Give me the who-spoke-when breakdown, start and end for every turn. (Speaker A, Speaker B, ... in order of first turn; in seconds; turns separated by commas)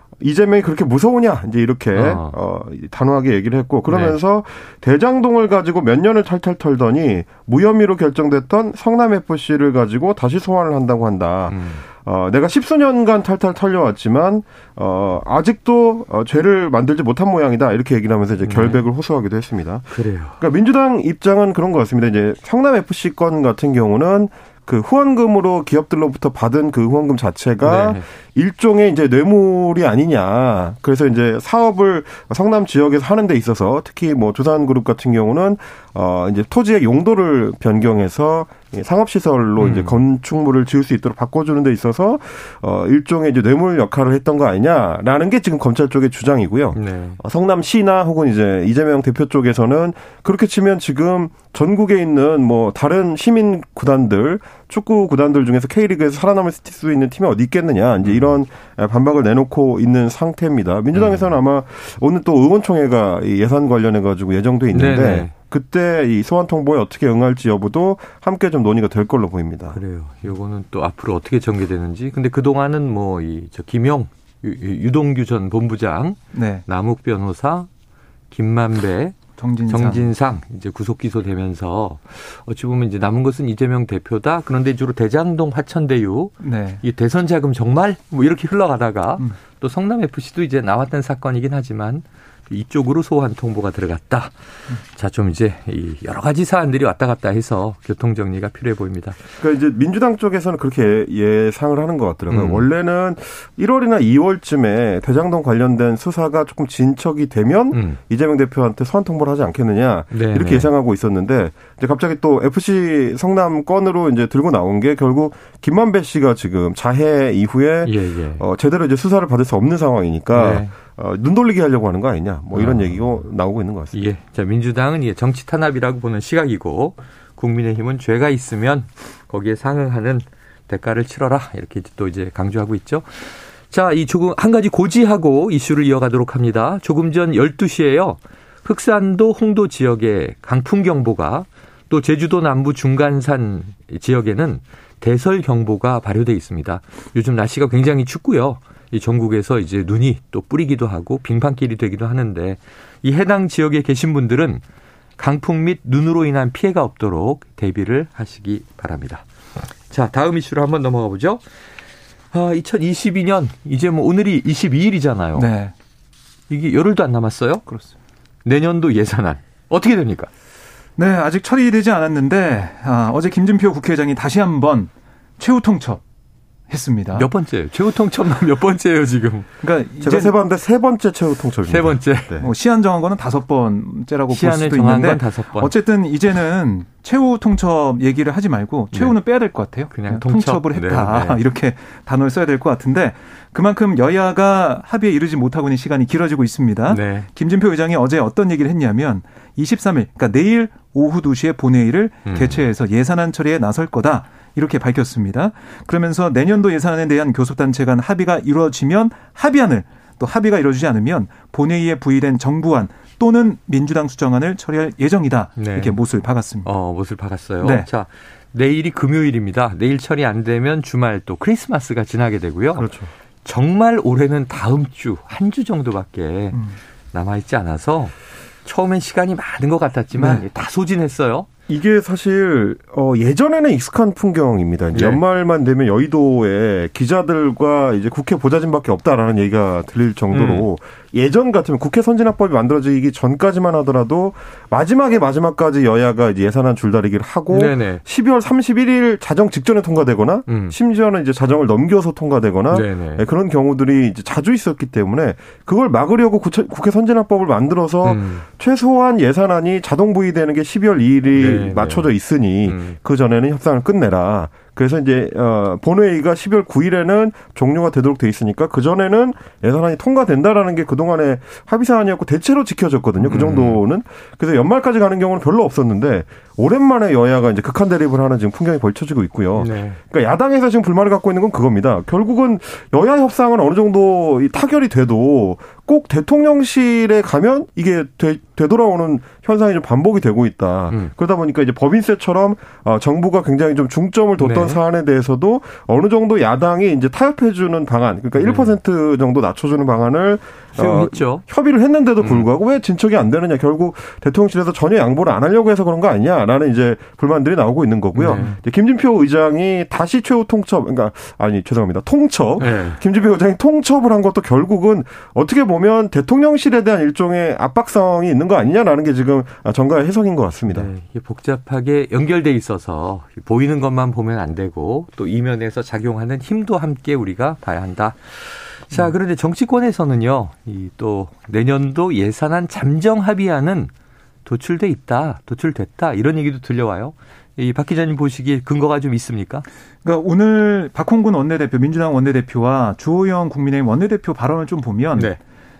Speaker A: 0.2-69.8, Speaker B: 1.9-2.3, Speaker B: 3.9-4.2, Speaker B: 11.5-11.8, Speaker B: 18.4-18.8, Speaker B: 19.9-20.4, Speaker B: 27.6-28.0, Speaker B: 39.6-40.0, Speaker B: 46.8-47.2, Speaker B: 58.0-58.3, Speaker B: 60.9-61.3, Speaker B: 64.7-65.3, Speaker B: 69.7-77.7, Speaker C: 76.3-76.6, Speaker B: 78.3-79.2, Speaker C: 79.4-80.1, Speaker B: 79.7-94.3, Speaker C: 86.4-86.8, Speaker B: 94.9-99.2, Speaker A: 99.4-124.0, Speaker B: 102.3-102.6, Speaker B: 107.7-108.0, Speaker B: 110.1-110.7, Speaker B: 117.8-118.4, Speaker B: 120.3-120.7, Speaker B: 122.5-123.2, Speaker B: 123.9-154.6, Speaker B: 155.2-159.2, Speaker B: 159.9-161.4, Speaker B: 162.3-165.5, Speaker C: 165.3-165.7, Speaker B: 166.5-167.6, Speaker C: 167.7-167.9, Speaker B: 168.4-170.3, Speaker C: 171.0-176.0, Speaker C: 176.7-177.3, Speaker B: 177.1-179.5, Speaker C: 179.6-180.3, Speaker A: 180.0-182.5, Speaker B: 181.7-182.4, Speaker C: 182.4-216.7, Speaker B: 184.3-185.7, Speaker B: 189.9-191.4, Speaker B: 196.9-197.3, Speaker B: 202.2-202.6, Speaker B: 215.6-216.0, Speaker B: 216.6-222.9, Speaker C: 217.6-217.9, Speaker A: 222.8-223.1, Speaker B: 223.4-226.6, Speaker C: 226.5-226.8, Speaker B: 227.1-228.1, Speaker B: 228.6-231.5, Speaker C: 230.1-230.4, Speaker A: 231.7-320.9, Speaker B: 234.9-235.2, Speaker B: 240.3-240.7, Speaker B: 247.5-248.0, Speaker B: 250.5-250.8, Speaker B: 252.7-253.2, Speaker B: 258.0-258.4, Speaker B: 261.3-262.1, Speaker B: 262.6-263.0, Speaker B: 273.2-273.8, Speaker B: 279.6-280.0, Speaker B: 294.4-294.8, Speaker B: 298.4-298.7, Speaker B: 300.8-301.4, Speaker B: 302.2-302.4, Speaker B: 308.1-308.6, Speaker B: 312.6-313.0, Speaker B: 320.7-333.9, Speaker B: 334.4-339.6, Speaker C: 340.0-345.4